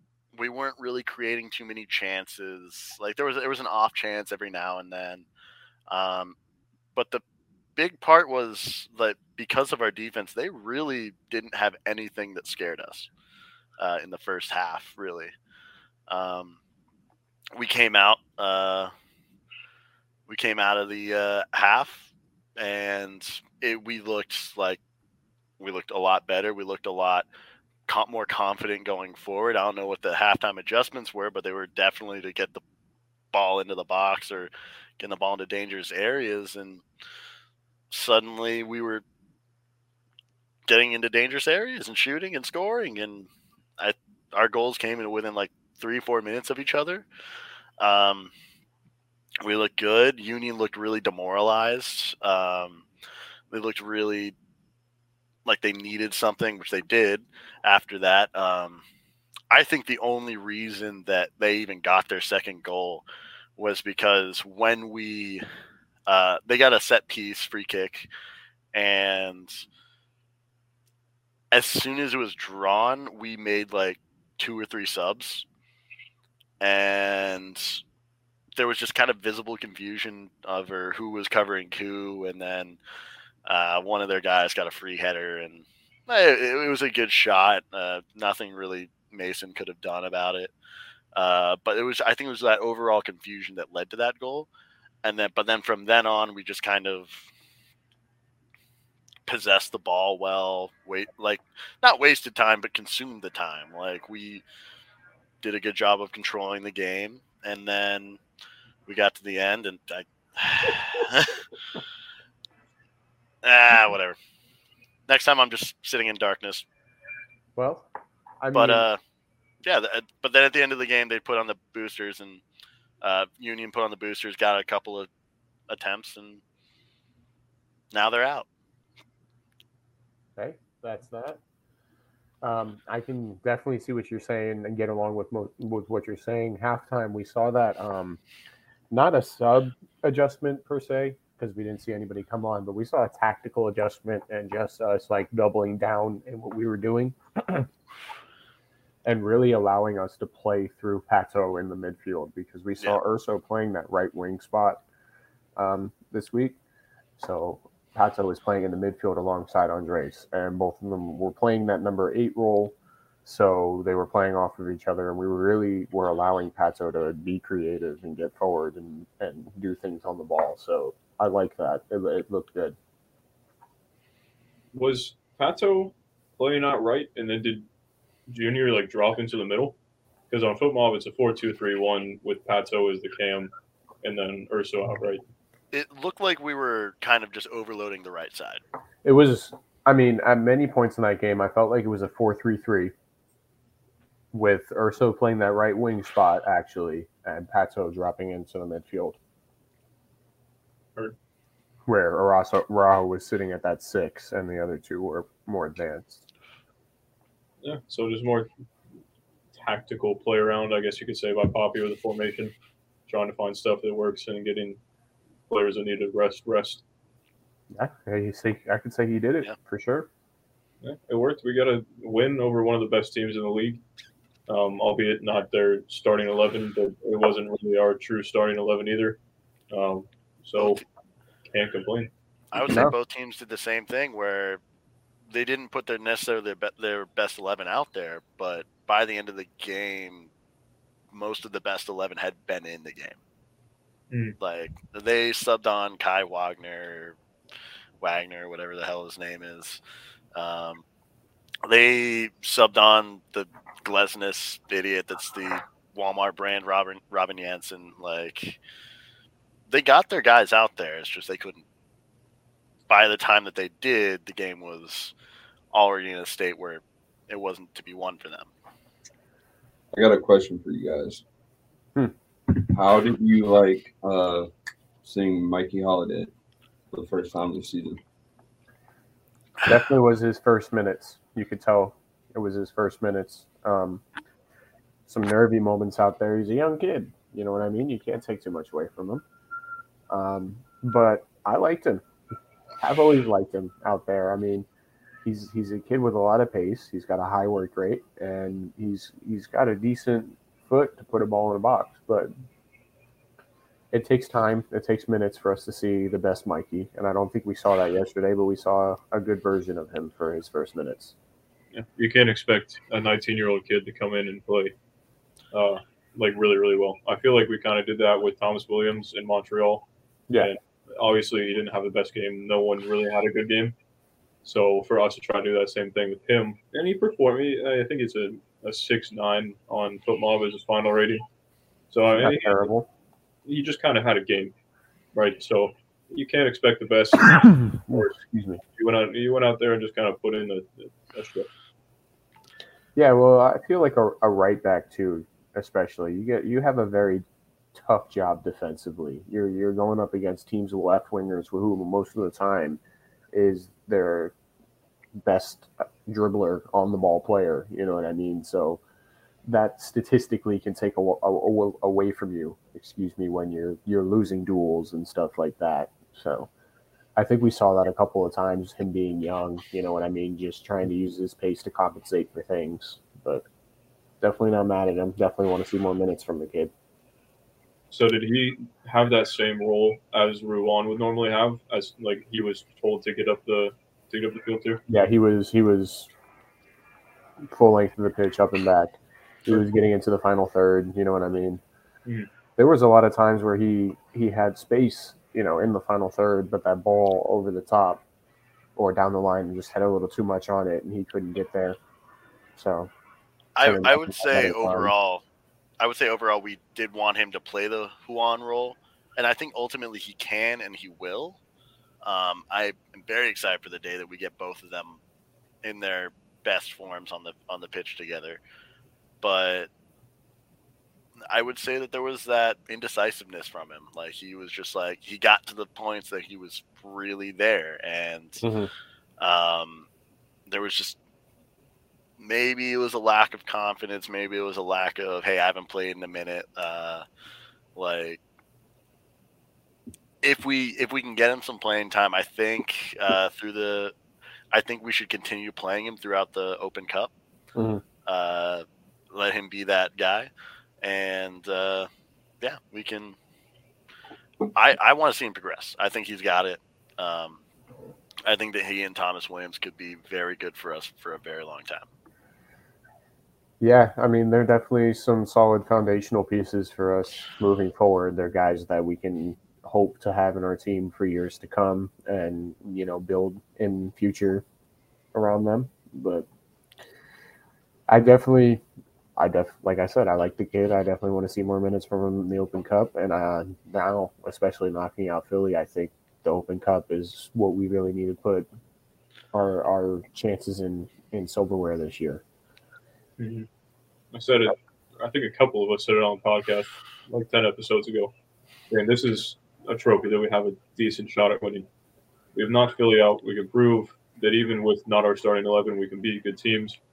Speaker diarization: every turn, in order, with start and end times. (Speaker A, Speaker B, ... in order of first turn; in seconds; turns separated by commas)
Speaker A: 0.4-5.3, Speaker A: 5.9-6.3, Speaker A: 7.0-7.2, Speaker A: 7.8-13.1, Speaker A: 13.8-15.3, Speaker A: 16.1-16.6, Speaker A: 17.6-18.9, Speaker A: 20.3-22.1, Speaker A: 22.6-24.8, Speaker A: 25.6-27.3, Speaker A: 27.9-32.6, Speaker A: 33.3-36.8, Speaker A: 37.9-39.0, Speaker A: 40.7-47.1, Speaker A: 47.8-48.3, Speaker A: 49.4-52.9, Speaker A: 53.5-54.4, Speaker A: 55.5-58.8, Speaker A: 59.5-63.0, Speaker A: 63.6-65.4, Speaker A: 66.1-68.1, Speaker A: 68.7-69.6, Speaker A: 71.5-75.5, Speaker A: 76.6-77.8, Speaker A: 78.6-82.8, Speaker A: 83.5-90.5, Speaker A: 91.2-94.5, Speaker A: 95.0-97.3, Speaker A: 99.3-104.4, Speaker A: 105.4-108.2, Speaker A: 108.9-111.4, Speaker A: 113.4-114.2, Speaker A: 115.1-116.7, Speaker B: 117.6-117.9, Speaker B: 118.4-118.9, Speaker A: 118.5-119.0, Speaker A: 119.6-122.4, Speaker A: 123.0-125.1, Speaker A: 125.7-126.4, Speaker A: 127.9-128.5, Speaker B: 130.4-131.4, Speaker B: 132.4-138.2, Speaker B: 138.9-147.7, Speaker B: 149.1-154.8, Speaker B: 155.6-156.6, Speaker B: 157.2-172.8, Speaker C: 174.7-177.7, Speaker C: 178.3-179.8, Speaker C: 180.3-183.5, Speaker C: 184.0-185.2, Speaker A: 185.7-188.6, Speaker B: 189.0-192.9, Speaker B: 194.3-199.2, Speaker B: 201.9-206.2, Speaker C: 207.6-208.5, Speaker C: 209.6-212.5, Speaker C: 213.1-214.8, Speaker C: 215.5-216.8, Speaker B: 217.7-220.1, Speaker C: 220.8-223.8, Speaker C: 224.5-229.2, Speaker C: 229.7-230.8, Speaker A: 230.6-230.8, Speaker C: 231.4-232.1, Speaker A: 232.5-234.6, Speaker B: 232.6-232.9, Speaker A: 235.3-240.3, Speaker A: 241.1-243.2, Speaker C: 244.1-244.4, Speaker A: 244.4-247.2, Speaker A: 248.0-249.8, Speaker A: 250.3-250.8, Speaker A: 251.7-258.6, Speaker A: 259.7-261.6, Speaker A: 262.9-265.1, Speaker A: 265.7-268.5, Speaker D: 269.9-271.2, Speaker D: 272.5-274.5, Speaker D: 275.0-276.3, Speaker D: 276.9-278.0, Speaker B: 279.6-284.0, Speaker B: 285.1-289.2, Speaker B: 290.1-292.0, Speaker B: 292.8-294.7, Speaker B: 295.2-302.3, Speaker B: 303.9-311.1, Speaker C: 311.7-314.7, Speaker C: 315.5-323.8, Speaker C: 324.4-331.2, Speaker C: 331.9-332.6, Speaker B: 332.2-332.9, Speaker C: 333.5-334.5, Speaker C: 335.1-338.2, Speaker B: 337.8-338.6, Speaker C: 338.8-341.5, Speaker B: 342.9-352.8, Speaker B: 353.3-354.3, Speaker B: 355.2-358.8, Speaker B: 359.5-366.5, Speaker B: 367.2-373.4, Speaker B: 374.2-376.7, Speaker C: 377.9-384.8, Speaker B: 384.9-386.1, Speaker B: 387.4-391.6, Speaker B: 392.6-398.0, Speaker B: 398.8-401.8, Speaker B: 402.6-402.9, Speaker A: 403.6-405.2, Speaker B: 403.6-404.9, Speaker A: 405.8-411.4, Speaker A: 412.0-415.0, Speaker A: 415.6-418.4, Speaker A: 419.2-419.7, Speaker A: 421.3-428.4, Speaker B: 428.4-428.7, Speaker A: 429.2-429.9, Speaker A: 430.5-431.0, Speaker A: 432.2-437.0, Speaker A: 437.8-438.2, Speaker A: 440.2-443.9, Speaker A: 444.5-447.1, Speaker B: 447.6-447.8, Speaker A: 448.1-450.3, Speaker A: 450.8-451.9, Speaker A: 452.4-453.2, Speaker A: 454.6-457.4, Speaker A: 458.3-461.9, Speaker B: 463.6-474.4, Speaker B: 475.1-476.3, Speaker B: 477.9-478.6, Speaker B: 479.2-488.5, Speaker B: 489.3-492.2, Speaker C: 493.2-493.5, Speaker C: 494.1-498.1, Speaker C: 498.7-501.7, Speaker C: 502.4-506.8